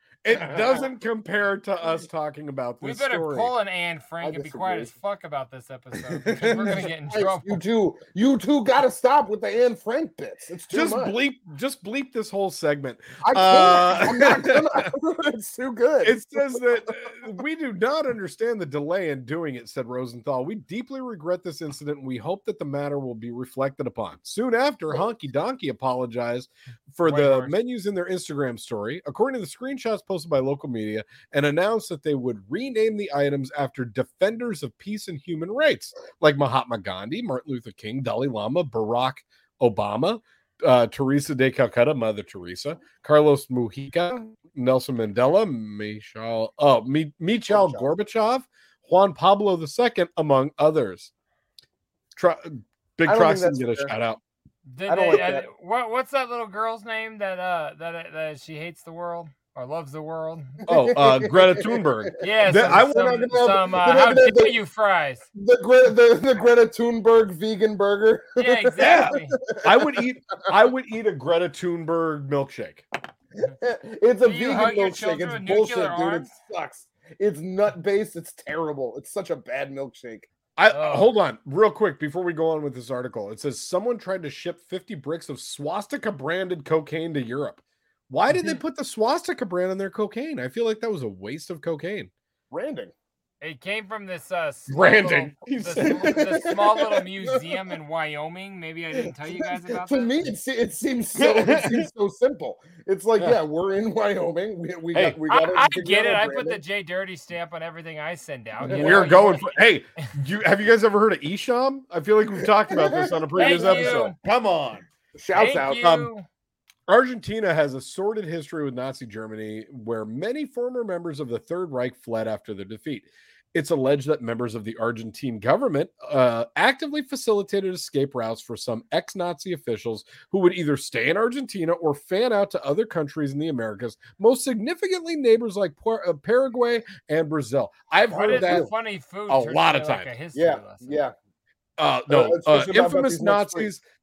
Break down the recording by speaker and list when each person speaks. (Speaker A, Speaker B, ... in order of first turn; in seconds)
Speaker A: 0.2-3.5, 6.3-6.8, 10.7-14.9, 16.0-51.1, 52.1-54.2, 60.7-63.2, 68.8-72.8, 80.6-92.1, 94.7-96.2, 101.2-101.9, 104.9-105.2, 108.6-114.8, 115.8-116.1, 116.9-138.7, 139.3-140.1, 141.8-143.8
Speaker B: 0.3-0.8, 4.2-4.9, 6.4-11.1, 13.2-16.6, 47.5-47.9, 53.0-53.9, 54.9-55.5, 60.7-64.5, 65.3-70.0, 73.6-80.3, 92.5-92.9, 95.8-97.5, 99.0-106.6, 108.6-109.1, 112.7-114.1, 115.1-115.8, 138.2-138.7, 140.3-141.1, 142.1-143.7
Speaker C: 2.8-7.6, 27.0-27.6, 54.7-60.5, 62.2-65.3, 68.4-69.4, 74.2-76.3, 80.7-81.1, 88.3-88.6, 93.4-100.1, 105.3-109.6, 113.3-114.1, 115.3-116.2, 138.1-141.0